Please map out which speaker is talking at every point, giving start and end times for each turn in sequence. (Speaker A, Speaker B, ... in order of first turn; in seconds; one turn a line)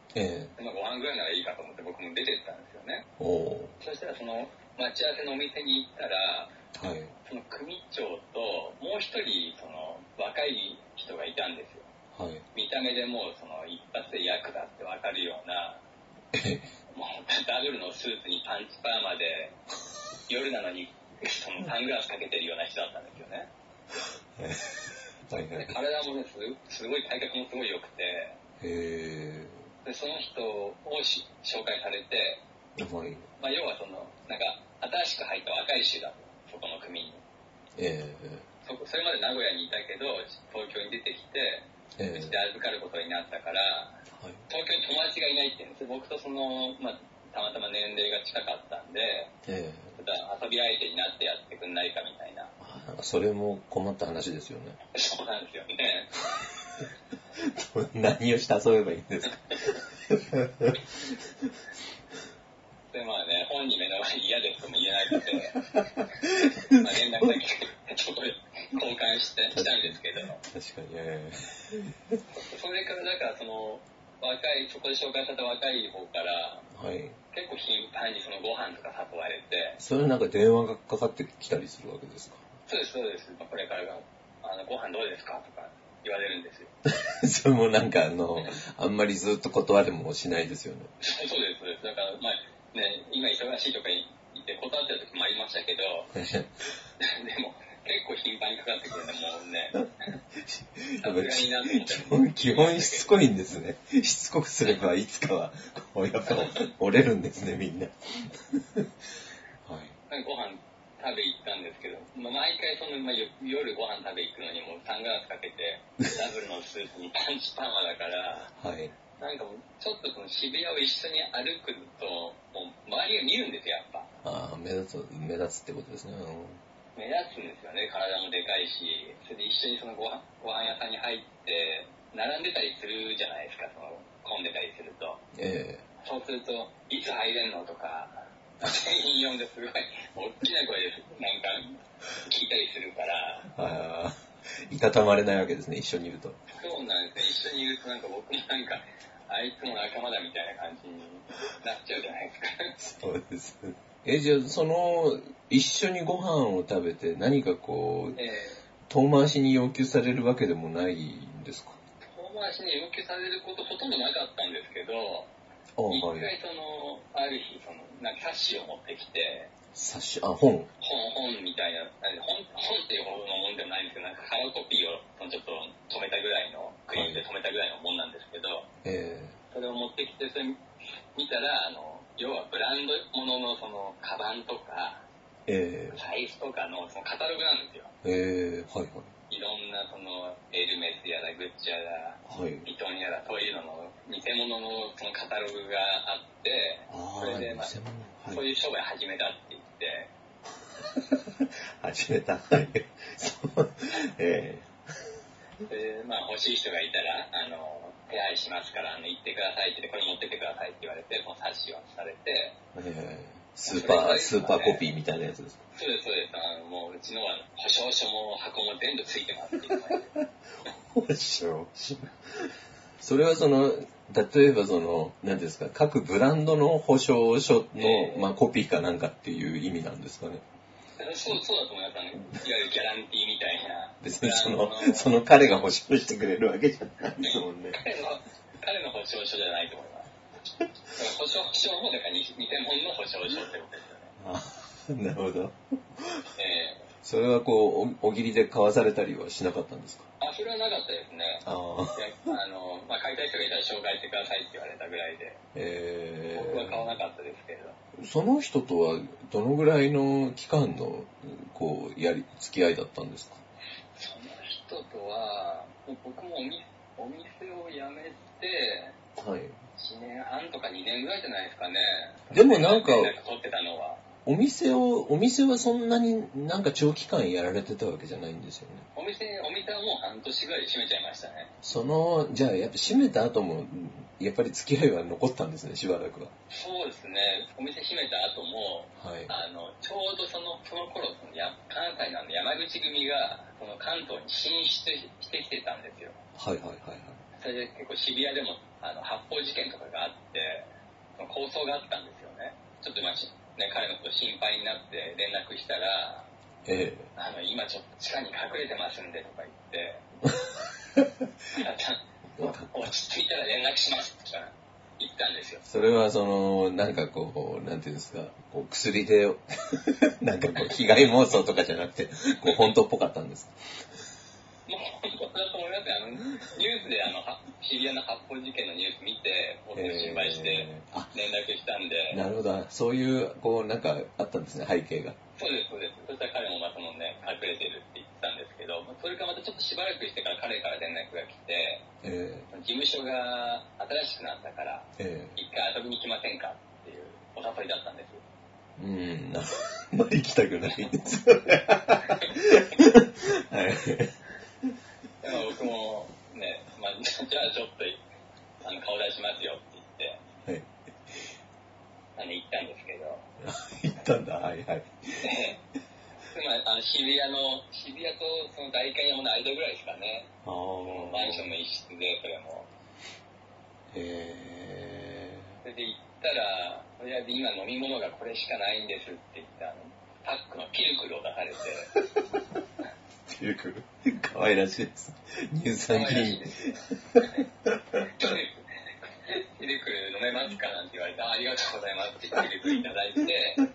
Speaker A: 0.1-0.5
Speaker B: 0.6-3.1
Speaker A: 3.2-3.8
Speaker B: 3.8-6.5
Speaker A: 6.7-7.2
Speaker B: 7.3-11.9
Speaker A: 12.1-12.4
Speaker B: 12.5-15.8
Speaker A: 16.3-16.7
Speaker B: 16.9-19.6
Speaker B: 20.3-23.5
Speaker A: 24.4-25.8
Speaker B: 25.6-28.4
Speaker A: 28.6-29.6
Speaker B: 29.9-32.4
Speaker A: 32.8-33.3
Speaker B: 33.4-37.2
Speaker A: 37.8-38.5
Speaker B: 38.6-49.3
Speaker A: 42.0-42.4
Speaker A: 44.1-44.4
Speaker A: 49.5-50.0
Speaker B: 50.0-52.5
Speaker A: 52.6-54.8
Speaker B: 54.9-56.1
Speaker A: 57.4-61.5
Speaker B: 62.9-65.6
Speaker A: 65.5-67.4
Speaker B: 66.8-70.4
Speaker A: 69.5-72.2
Speaker B: 72.3-76.7
Speaker A: 76.7-77.2
Speaker B: 77.3-79.8
Speaker A: 79.8-82.4
Speaker B: 82.7-86.7
Speaker A: 86.9-90.9
Speaker B: 91.0-96.1
Speaker A: 96.2-96.5
Speaker B: 97.0-99.8
Speaker A: 99.8-108.9
Speaker B: 101.0-103.1
Speaker B: 106.3-106.6
Speaker A: 109.7-110.0
Speaker B: 110.1-118.5
Speaker A: 118.5-119.0
Speaker B: 119.2-124.1
Speaker A: 124.2-126.6
Speaker B: 127.0-135.2
Speaker A: 135.3-135.8
Speaker B: 136.0-143.5
Speaker A: 143.5-146.4
Speaker B: 146.5-152.8
Speaker A: 152.8-158.2
Speaker B: 158.2-158.6
Speaker A: 158.9-161.8
Speaker B: 162.0-165.3
Speaker A: 165.8-166.3
Speaker B: 165.9-169.5
Speaker A: 169.7-170.7
Speaker B: 170.8-178.7
Speaker A: 176.9-177.2
Speaker A: 178.8-179.4
Speaker B: 179.5-185.1
Speaker A: 185.5-186.0
Speaker B: 185.9-187.9
Speaker A: 188.0-189.1
Speaker B: 189.3-197.7
Speaker A: 192.3-192.7
Speaker A: 196.9-198.4
Speaker B: 198.3-200.1
Speaker A: 200.9-204.7
Speaker B: 205.7-212.6
Speaker A: 212.7-215.7
Speaker B: 213.7-214.9
Speaker B: 215.8-220.1
Speaker A: 220.8-230.4
Speaker B: 227.8-228.3
Speaker B: 231.0-235.2
Speaker A: 234.0-237.8
Speaker B: 237.2-240.1
Speaker B: 240.9-244.1
Speaker A: 244.2-246.3
Speaker B: 246.4-246.9
Speaker A: 247.0-250.1
Speaker B: 250.2-255.4
Speaker A: 251.4-252.3
Speaker A: 255.5-256.9
Speaker B: 256.3-257.8
Speaker A: 258.0-263.4
Speaker B: 263.9-269.0
Speaker A: 269.2-269.6
Speaker B: 269.8-274.0
Speaker A: 272.3-273.1
Speaker A: 274.2-278.9
Speaker B: 278.9-281.5
Speaker A: 281.6-286.3
Speaker B: 286.5-296.2
Speaker A: 289.0-289.4
Speaker A: 296.4-297.2
Speaker B: 297.4-306.3
Speaker A: 306.7-307.1
Speaker B: 307.2-310.0
Speaker A: 310.3-311.3
Speaker B: 311.5-315.6
Speaker A: 312.4-312.9
Speaker A: 315.6-323.6
Speaker B: 324.7-332.2
Speaker A: 329.8-331.1
Speaker A: 332.1-335.2
Speaker B: 335.4-341.9
Speaker A: 342.0-342.5
Speaker B: 342.5-348.2
Speaker A: 345.0-345.4
Speaker A: 348.8-354.8
Speaker B: 355.2-358.0
Speaker B: 358.6-360.2
Speaker B: 362.2-363.3
Speaker A: 363.4-365.3
Speaker B: 365.2-365.6
Speaker B: 366.3-370.3
Speaker A: 370.4-371.5
Speaker B: 370.8-372.7
Speaker A: 373.9-375.4
Speaker B: 375.6-381.9
Speaker A: 381.9-382.6
Speaker A: 383.3-388.3
Speaker B: 385.9-387.4
Speaker B: 388.1-393.6